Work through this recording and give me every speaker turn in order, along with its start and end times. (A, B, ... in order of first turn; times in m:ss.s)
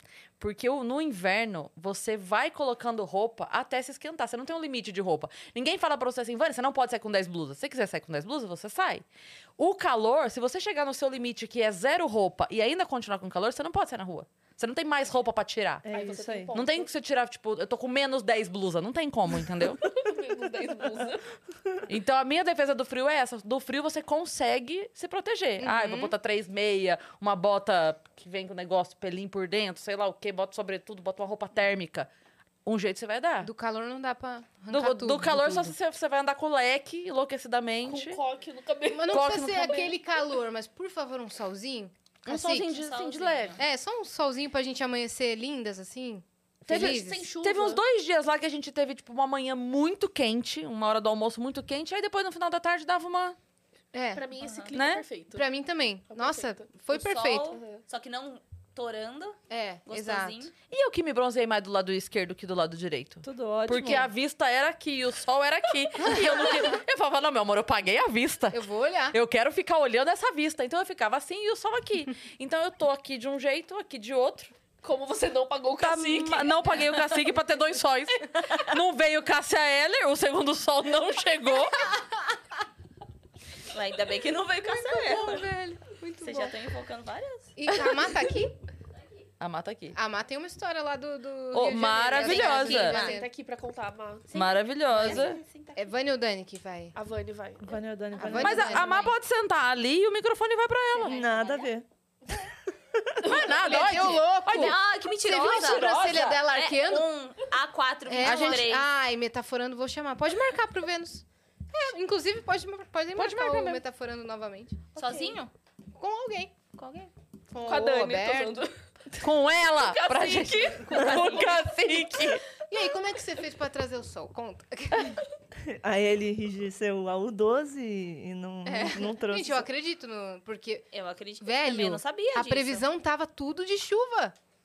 0:00.4-0:09.0 A
0:09.6-0:15.9 A
0:15.8-0:16.6 B
0:15.9-0:16.9 C
0:16.5-0:20.0 A
0:19.9-0:21.3 C
0:21.9-0:32.1 A
0:25.6-0:26.1 D
0:32.6-0:33.5 A
0:33.4-0:35.8 D
0:34.7-0:38.2 A
0:37.8-0:39.9 C
0:38.9-0:42.7 D
0:39.1-0:39.9 A
0:42.3-0:43.6 A
0:42.6-0:43.6 E
0:43.6-0:47.3 D
0:46.6-0:53.4 A
0:46.7-0:47.8 C
0:53.9-0:54.2 D
0:54.1-0:55.4 C
0:54.4-0:54.7 E
0:54.7-0:55.0 A
0:55.3-0:57.6 D
0:56.1-0:57.0 C
0:57.0-1:00.5 E
0:57.5-0:57.8 C
0:59.5-1:00.5 D
1:00.7-1:14.5 A
1:03.2-1:04.0 B
1:06.0-1:06.8 D
1:08.5-1:09.2 D
1:14.8-1:16.7 C
1:15.8-1:21.9 A
1:23.7-1:27.5 E
1:24.6-1:26.6 D
1:27.6-1:28.6 D
1:29.4-1:30.0 A
1:29.9-1:33.3 D
1:31.5-1:33.1 A
1:32.2-1:33.2 E
1:32.9-1:34.3 C
1:34.3-1:35.8 E
1:34.3-1:35.4 A
1:35.8-1:36.9 D
1:37.0-1:37.7 C
1:37.6-1:38.9 B
1:38.2-1:39.1 D
1:38.4-1:41.2 A
1:41.0-1:41.7 E
1:41.0-1:41.8 B
1:43.2-1:44.8 A
1:43.3-1:43.7 C
1:43.3-1:47.1 D
1:44.4-1:48.9 E
1:45.6-1:46.4 C
1:48.0-1:55.4 D
1:48.2-1:48.6 A
1:53.2-1:53.8 A
1:54.9-1:55.5 E
1:56.0-1:56.6 D
1:56.7-1:57.1 E
1:57.5-1:58.6 D
1:57.6-1:58.8 C
1:59.2-2:02.4 A
1:59.7-2:02.3 C
2:00.8-2:01.7 E
2:02.7-2:05.2 D
2:05.7-2:09.7 B
2:08.6-2:10.9 D
2:10.9-2:12.8 E
2:11.4-2:14.3 D